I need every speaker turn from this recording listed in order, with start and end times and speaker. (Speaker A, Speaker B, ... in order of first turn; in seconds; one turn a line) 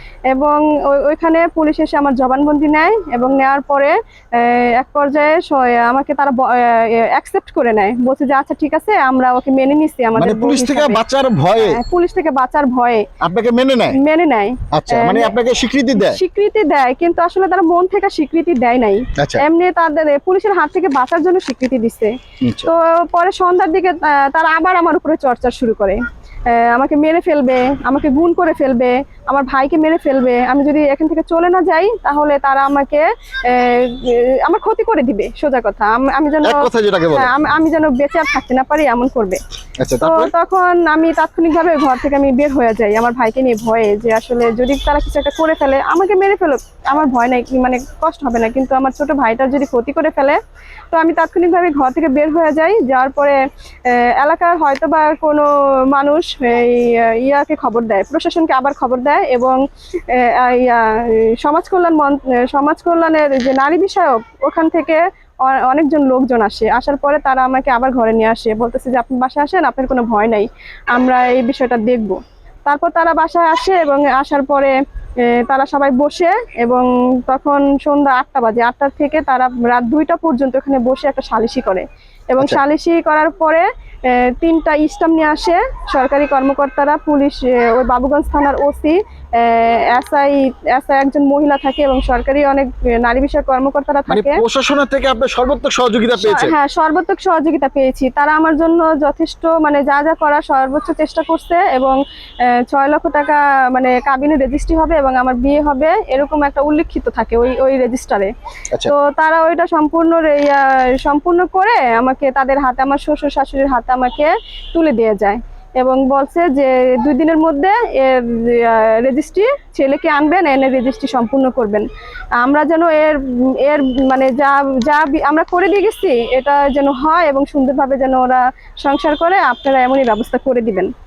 Speaker A: 0.3-11.0
Speaker B: 10.2-11.8
Speaker A: 11.6-13.1
Speaker B: 13.2-14.0
Speaker A: 13.9-15.3
Speaker B: 14.7-16.2
Speaker A: 16.0-22.1
Speaker B: 19.2-19.4
Speaker B: 22.4-22.7
Speaker A: 22.6-39.4
Speaker B: 36.4-37.3
Speaker B: 39.8-40.3
Speaker A: 40.0-50.4
Speaker A: 50.9-59.6
Speaker A: 60.1-74.8
Speaker A: 75.3-94.4
Speaker B: 94.1-96.5
Speaker A: 96.2-108.3
Speaker A: 108.9-121.9
Speaker A: 122.4-130.9